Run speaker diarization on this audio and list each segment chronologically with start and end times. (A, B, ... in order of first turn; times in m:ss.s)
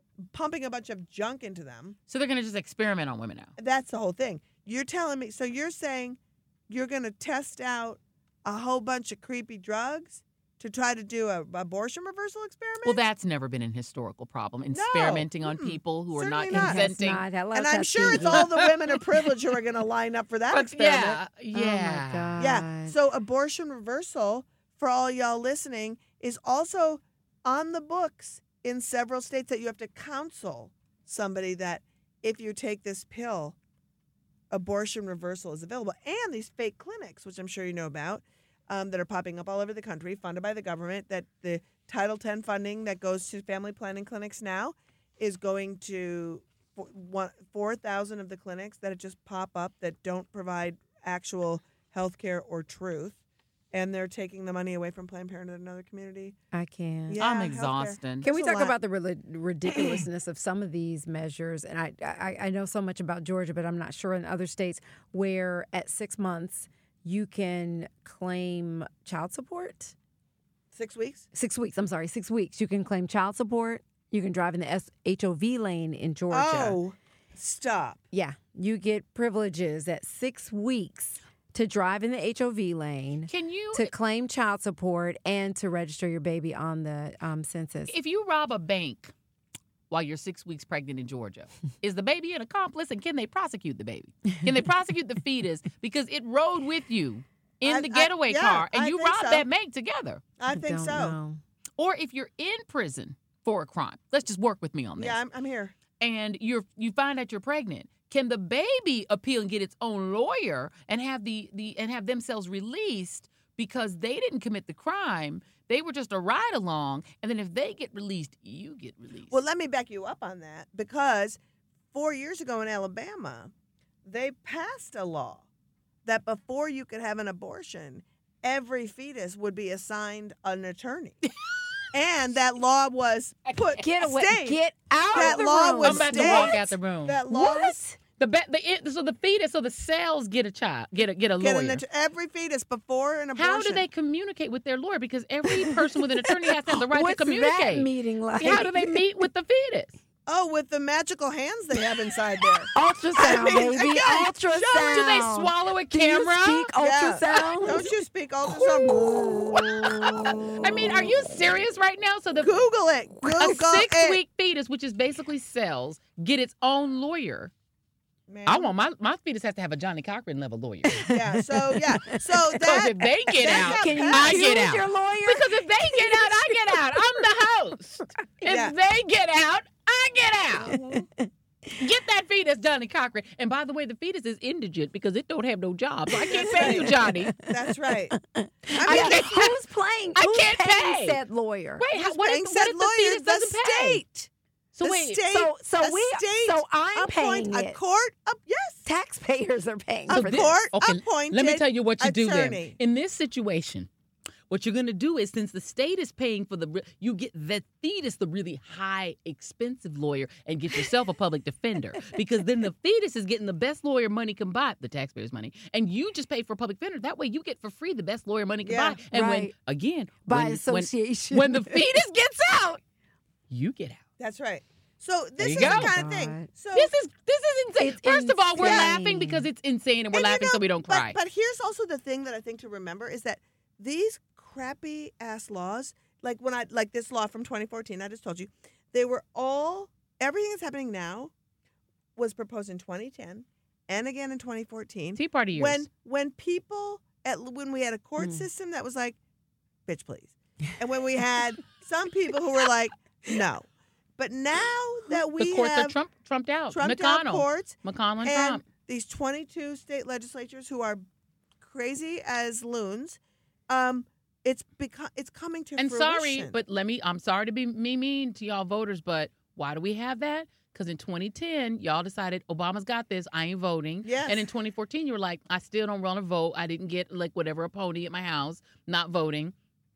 0:00.3-0:02.0 A
0:02.1-0:03.5 B
0:03.6-0:13.0 A
0:12.8-0:17.2 B
0:14.7-0:16.9 A
0:16.5-0:18.7 C
0:17.5-0:21.2 A
0:18.1-0:18.6 B
0:20.5-0:22.4 B
0:21.5-0:23.0 C
0:22.4-0:33.6 A
0:34.5-0:53.2 A
0:53.7-0:56.4 A
0:56.5-0:57.2 C
0:57.1-0:58.7 A
0:57.2-0:58.3 B
0:58.2-1:10.0 C
1:10.7-1:11.3 A
1:11.3-1:16.8 C
1:16.3-1:18.0 A
1:18.1-1:27.9 C
1:23.3-1:23.9 B
1:27.9-1:29.1 B
1:29.9-1:40.2 B
1:37.6-1:39.5 A
1:40.4-1:41.2 A
1:40.5-1:41.4 C
1:41.8-1:45.2 B
1:45.0-1:45.8 A
1:46.0-1:59.4 B
1:59.3-2:01.4 A
2:01.9-2:03.5 A
2:04.0-2:05.5 A
2:06.0-2:11.2 A
2:11.9-2:14.6 A
2:13.5-2:13.8 B
2:13.8-2:16.7 C
2:15.1-2:17.8 A
2:15.1-2:17.2 B
2:17.3-2:18.0 C
2:18.2-2:21.8 B
2:21.4-2:23.8 A
2:23.4-2:29.9 B
2:25.5-2:29.0 C
2:30.3-2:35.2 A
2:32.7-2:37.9 C
2:34.9-2:36.7 B
2:36.8-2:40.5 A
2:37.3-2:37.6 B
2:38.6-2:41.1 C
2:40.6-2:42.6 B
2:42.4-2:44.2 A
2:43.3-2:47.5 B
2:48.3-2:48.7 A
2:48.5-2:51.1 B
2:50.8-2:52.8 C
2:51.1-2:54.6 A
2:52.6-3:01.0 B
2:53.4-2:57.2 C
2:58.4-2:58.8 A
3:00.6-3:01.7 C
3:01.8-3:07.4 B
3:06.1-3:07.6 C
3:06.4-3:08.2 A
3:08.2-3:11.8 C
3:08.7-3:09.5 A
3:08.8-3:09.6 B
3:10.2-3:11.2 B
3:11.8-3:14.0 B
3:11.9-3:14.3 A
3:14.7-3:15.2 B
3:14.8-3:18.9 A
3:15.3-3:17.8 C
3:18.8-3:20.5 C
3:20.1-3:23.9 B
3:20.1-3:22.8 A
3:24.5-3:42.8 B
3:38.6-3:39.0 A
3:39.1-3:39.5 C
3:40.3-3:42.8 C
3:43.5-3:44.0 B
3:44.2-3:46.9 A
3:45.4-3:45.9 B
3:45.5-3:46.5 C
3:46.7-3:51.2 B
3:47.8-3:49.5 C
3:48.6-3:49.0 A
3:50.1-4:01.3 A
4:02.2-4:09.2 A
4:05.2-4:05.9 B
4:08.2-4:08.4 C
4:09.9-4:13.7 A
4:14.2-4:16.0 A
4:15.4-4:18.6 B
4:16.7-4:21.0 A
4:21.6-4:26.6 A
4:25.8-4:39.6 B
4:34.0-4:34.5 A